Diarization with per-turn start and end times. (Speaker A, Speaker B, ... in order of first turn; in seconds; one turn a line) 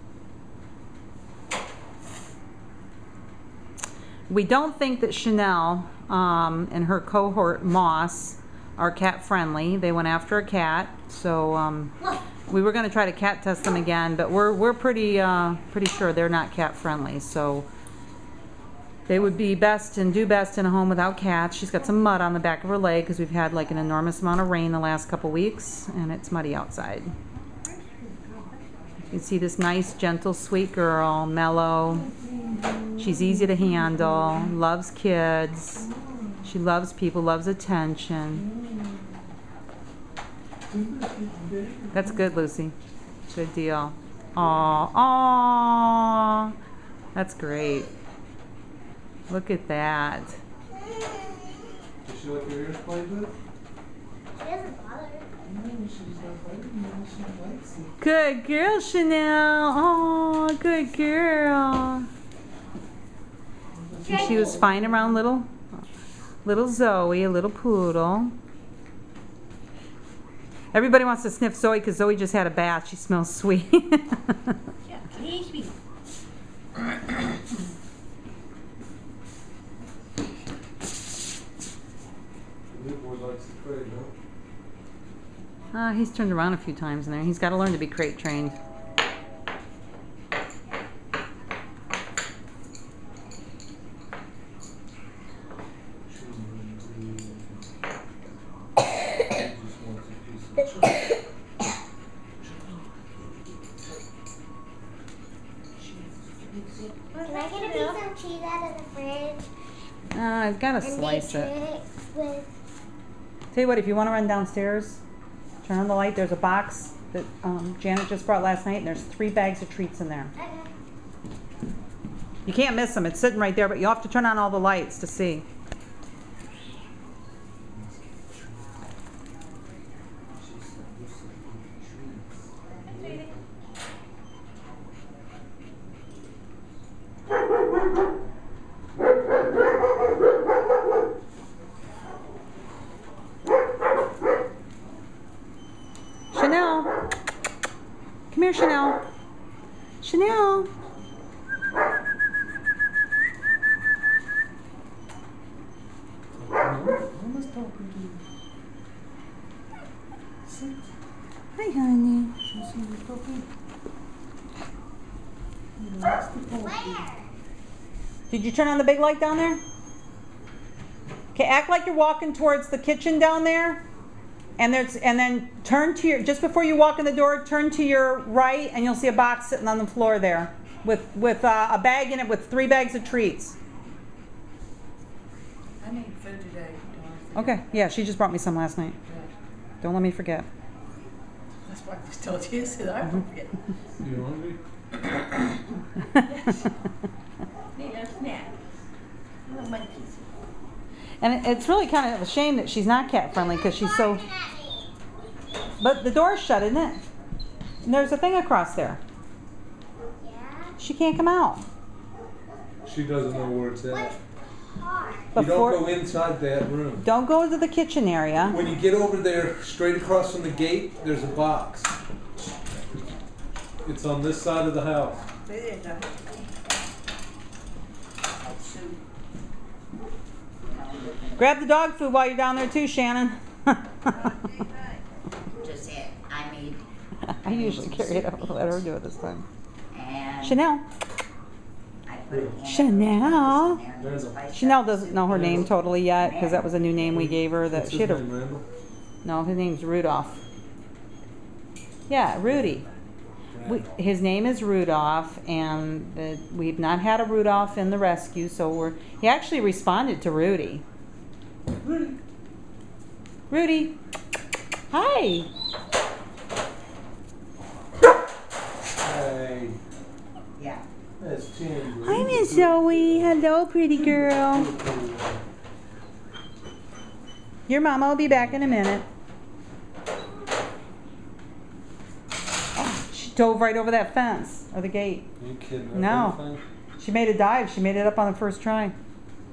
Speaker A: 4.3-11.9
Speaker A: 12.5-17.7
Speaker A: 19.1-27.1
Speaker A: 29.1-32.1
Speaker B: 31.9-34.5
Speaker A: 33.0-35.9
Speaker B: 35.9-36.5
Speaker A: 36.4-38.5
Speaker B: 38.4-38.7
Speaker B: 40.7-42.3
Speaker A: 41.9-42.7
Speaker A: 43.3-46.5
Speaker A: 47.1-47.9
Speaker A: 49.3-50.4
Speaker B: 52.0-53.3
Speaker C: 54.4-55.3
Speaker B: 55.5-57.9
Speaker A: 58.0-62.1
Speaker B: 63.8-65.2
Speaker C: 64.0-64.6
Speaker A: 64.1-65.8
Speaker A: 66.4-68.3
Speaker A: 70.7-74.6
Speaker D: 74.9-75.7
Speaker B: 82.7-84.1
Speaker A: 85.7-88.5
Speaker B: 96.1-97.7
Speaker B: 99.2-101.0
Speaker B: 102.4-102.8
Speaker D: 106.7-108.0
Speaker C: 107.2-109.5
Speaker A: 110.1-111.5
Speaker C: 110.8-112.5
Speaker A: 113.5-115.0
Speaker A: 115.6-120.3
Speaker C: 120.3-120.7
Speaker A: 122.4-125.4
Speaker B: 127.7-128.7
Speaker B: 132.9-133.3
Speaker D: 133.0-133.3
Speaker A: 146.3-146.9
Speaker A: 148.3-149.0
Speaker A: 150.0-150.7
Speaker B: 156.3-158.2
Speaker B: 160.4-160.8
Speaker A: 161.6-162.3
Speaker B: 162.5-163.4
Speaker B: 165.8-167.1
Speaker C: 166.6-167.3
Speaker A: 168.3-169.6
Speaker A: 171.3-173.8
Speaker A: 174.6-183.6
Speaker D: 185.8-187.6
Speaker A: 187.3-189.0
Speaker A: 189.8-190.5
Speaker D: 191.6-193.5
Speaker B: 194.0-194.6
Speaker D: 196.3-196.6
Speaker D: 197.8-198.5
Speaker D: 199.4-200.3
Speaker A: 201.2-204.2
Speaker C: 203.3-204.9
Speaker A: 205.8-207.0
Speaker A: 207.8-209.0
Speaker C: 210.2-210.8
Speaker A: 210.8-211.6
Speaker B: 212.8-214.2
Speaker C: 213.9-215.3
Speaker A: 215.3-215.9
Speaker B: 215.3-217.1
Speaker A: 217.0-218.6
Speaker B: 218.5-221.9
Speaker B: 223.8-225.2
Speaker D: 225.4-226.3
Speaker E: 228.4-229.0
Speaker E: 230.7-231.4
Speaker A: 231.4-234.3
Speaker E: 235.6-236.8
Speaker A: 237.3-239.4
Speaker E: 237.4-238.8
Speaker E: 239.9-240.6
Speaker A: 240.4-240.8
Speaker E: 242.1-245.6
Speaker B: 242.3-242.6
Speaker A: 242.6-243.8
Speaker B: 244.0-244.4
Speaker A: 244.5-248.3
Speaker B: 245.2-245.7
Speaker E: 246.2-246.8
Speaker B: 247.0-248.6
Speaker A: 249.2-250.4
Speaker A: 252.1-252.8
Speaker B: 253.5-253.9
Speaker A: 253.6-260.8
Speaker B: 261.8-262.2
Speaker A: 263.5-264.0
Speaker A: 264.9-265.5
Speaker B: 269.0-269.8
Speaker E: 270.6-270.8
Speaker B: 271.2-275.4
Speaker A: 272.0-274.7
Speaker A: 277.7-279.0
Speaker B: 278.3-278.8
Speaker A: 282.8-285.3
Speaker B: 285.4-286.6
Speaker A: 285.9-286.4
Speaker A: 287.0-288.9